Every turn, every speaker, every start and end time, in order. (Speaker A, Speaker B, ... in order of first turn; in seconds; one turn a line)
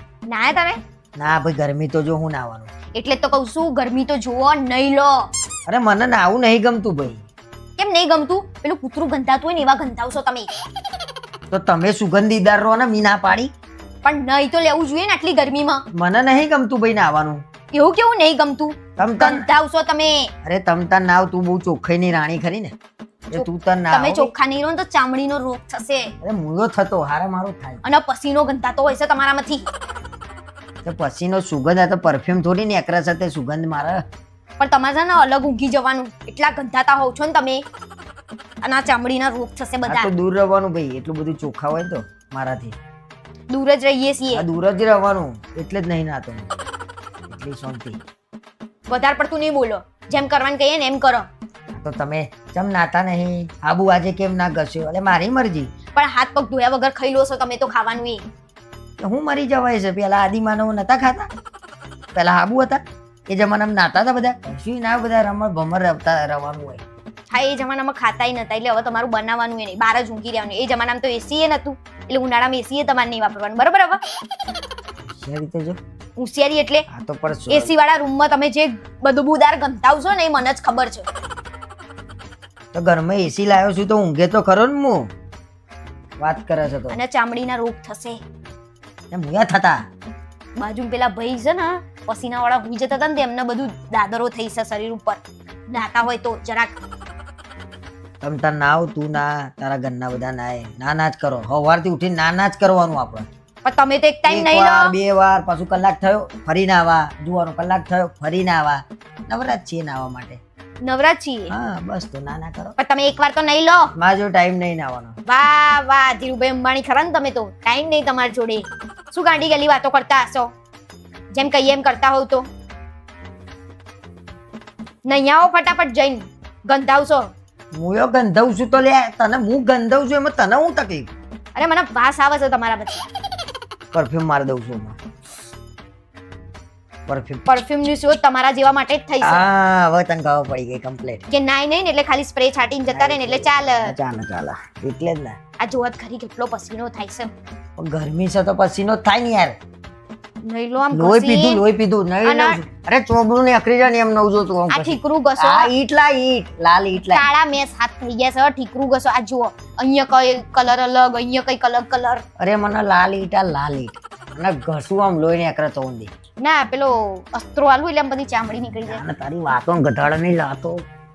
Speaker A: 0.3-0.8
Speaker B: 1.2-2.7
Speaker A: 2.9-5.3
Speaker B: 5.7-7.3
Speaker A: 7.8-10.5
Speaker B: 11.5-13.5
Speaker A: 14.0-15.8
Speaker B: 15.9-17.4
Speaker A: 17.7-20.3
Speaker B: 19.0-19.5
Speaker B: 20.4-22.7
Speaker B: 23.3-24.3
Speaker A: 23.4-26.1
Speaker B: 26.2-27.8
Speaker A: 27.8-29.7
Speaker B: 30.9-34.0
Speaker A: 34.6-37.6
Speaker A: 38.6-40.1
Speaker B: 39.9-42.8
Speaker A: 43.5-44.5
Speaker B: 44.3-46.5
Speaker B: 47.3-48.0
Speaker A: 48.9-51.3
Speaker B: 51.7-55.7
Speaker A: 56.0-58.2
Speaker B: 59.0-61.3
Speaker B: 62.1-66.8
Speaker A: 67.3-74.0
Speaker B: 75.1-75.8
Speaker A: 76.2-76.8
Speaker B: 76.9-77.7
Speaker A: 77.5-81.1
Speaker B: 82.7-85.1
Speaker B: 86.2-87.0
Speaker A: 86.9-88.2
Speaker B: 89.1-89.8
Speaker A: 90.6-96.8
Speaker B: 98.2-103.3
Speaker A: 103.6-105.0
Speaker B: 104.3-110.4
Speaker A: 110.8-111.5
Speaker B: 111.5-112.8
Speaker A: 112.8-113.9
Speaker B: 114.0-115.2
Speaker A: 115.2-120.5
Speaker A: 121.3-122.5
Speaker A: 125.1-127.3
Speaker B: 127.7-131.1
Speaker A: 131.6-133.1
Speaker B: 133.9-135.0
Speaker B: 137.1-137.5
Speaker A: 137.5-139.4
Speaker B: 139.2-141.3
Speaker A: 141.3-144.0
Speaker B: 142.9-145.4
Speaker A: 145.6-147.3
Speaker B: 147.8-149.6
Speaker A: 150.4-151.6
Speaker B: 150.9-157.3
Speaker A: 152.2-152.6
Speaker A: 154.7-155.7
Speaker A: 157.1-162.2
Speaker B: 162.4-166.1
Speaker A: 166.4-169.0
Speaker B: 168.8-170.8